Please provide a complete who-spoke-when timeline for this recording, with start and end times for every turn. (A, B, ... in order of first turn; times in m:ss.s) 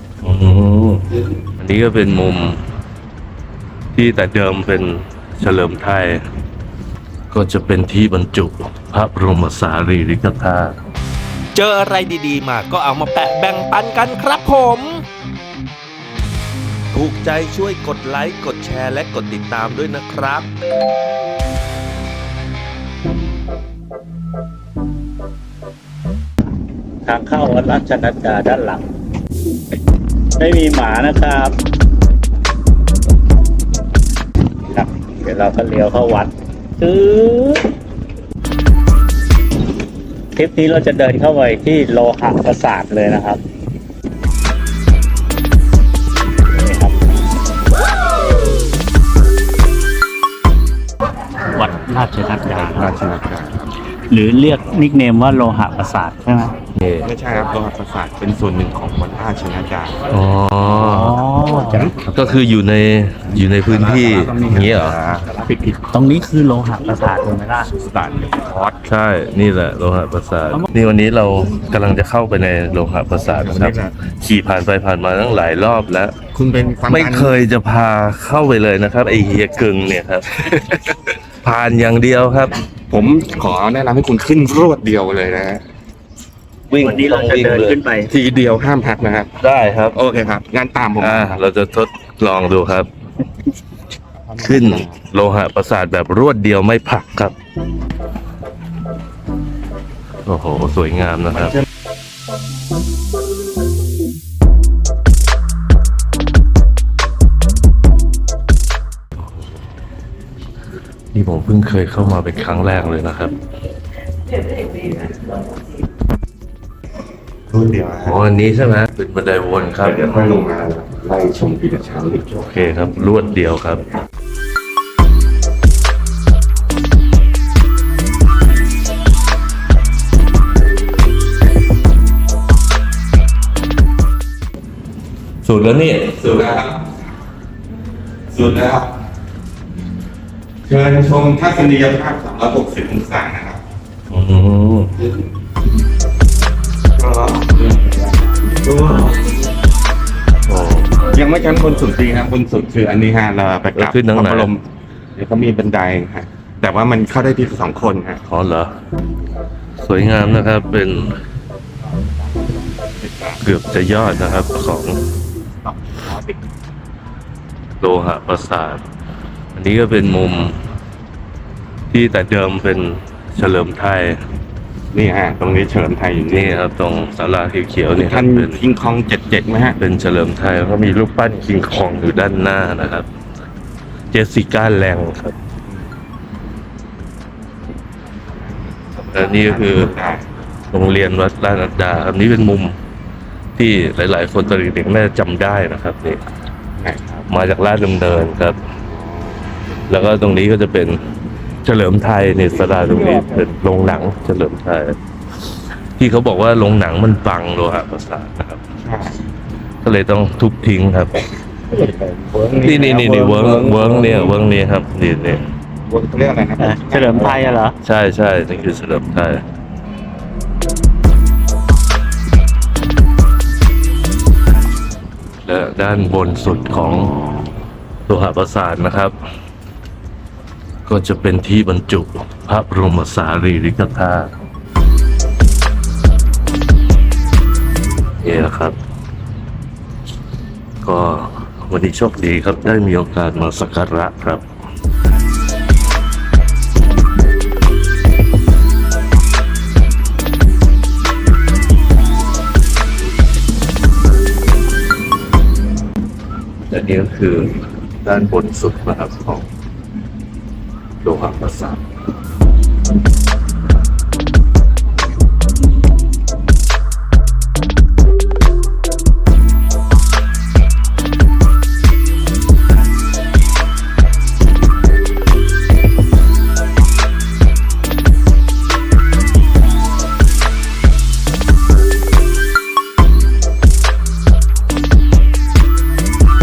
0:00.2-0:01.1 A
0:01.6-0:02.6 A
0:03.9-0:06.2 A
0:07.3-0:10.8 A
0:11.6-0:15.0 B
0:16.9-0:20.5 B
0:27.0-0:28.9 C
0:30.4-0:31.6 C
0:34.7-0:37.7 C
0:40.4-0:43.4 C
0:46.5-0:47.0 C
0:51.5-0:52.9 C
0:52.5-0:53.7 D
0:54.1-0:56.6 C
0:56.8-0:57.1 A
0:57.0-1:00.0 D
1:00.1-1:01.2 A
1:00.7-1:02.0 C
1:01.6-1:02.1 D
1:02.1-1:05.0 A
1:03.7-1:05.8 D
1:05.9-1:07.7 C
1:07.7-1:08.8 D
1:08.8-1:16.2 A
1:13.2-1:14.0 D
1:16.3-1:17.3 D
1:16.9-1:20.5 A
1:21.4-1:22.6 A
1:22.9-1:25.6 D
1:26.7-1:27.8 A
1:26.8-1:28.1 C
1:28.1-1:29.3 D
1:29.4-1:30.0 A
1:29.9-1:31.4 D
1:31.0-1:32.9 A
1:34.3-1:35.0 D
1:34.4-1:37.3 A
1:40.3-1:41.6 A
1:51.1-1:53.4 A
1:57.5-1:58.2 D
1:58.0-2:00.2 A
1:59.8-2:02.5 D
2:02.4-2:03.9 A
2:15.4-2:16.2 A
2:16.2-2:16.9 D
2:18.3-2:19.0 D
2:20.7-2:23.6 D
2:24.1-2:24.9 A
2:27.0-2:29.4 D
2:30.5-2:31.1 A
2:31.1-2:38.2 D
2:33.8-2:34.5 A
2:38.3-2:38.7 A
2:39.8-2:41.2 A
2:43.0-2:43.4 D
2:43.4-2:45.0 A
2:45.6-2:46.4 D
2:47.8-2:48.8 A
2:49.5-2:50.6 A
2:51.9-2:54.2 A
2:54.9-2:56.6 D
2:56.3-2:58.6 A
2:57.9-2:59.8 D
2:59.8-3:03.1 A
3:04.1-3:05.4 A
3:09.0-3:10.3 D
3:09.1-3:10.0 A
3:10.7-3:12.8 A
3:13.6-3:16.2 A
3:16.8-3:17.3 D
3:17.3-3:18.6 A
3:19.9-3:21.0 A
3:21.6-3:25.0 A
3:26.0-3:28.6 A
3:28.8-3:29.2 D
3:29.8-3:31.2 A
3:31.7-3:34.4 D
3:32.6-3:35.4 A
3:35.8-3:37.6 D
3:36.6-3:37.8 C
3:37.8-3:39.4 A
3:45.5-3:47.1 A
3:48.1-3:49.1 A
3:50.9-3:54.3 A
3:58.2-3:58.8 A
4:00.8-4:04.4 A
4:16.7-4:19.5 A
4:21.0-4:21.8 A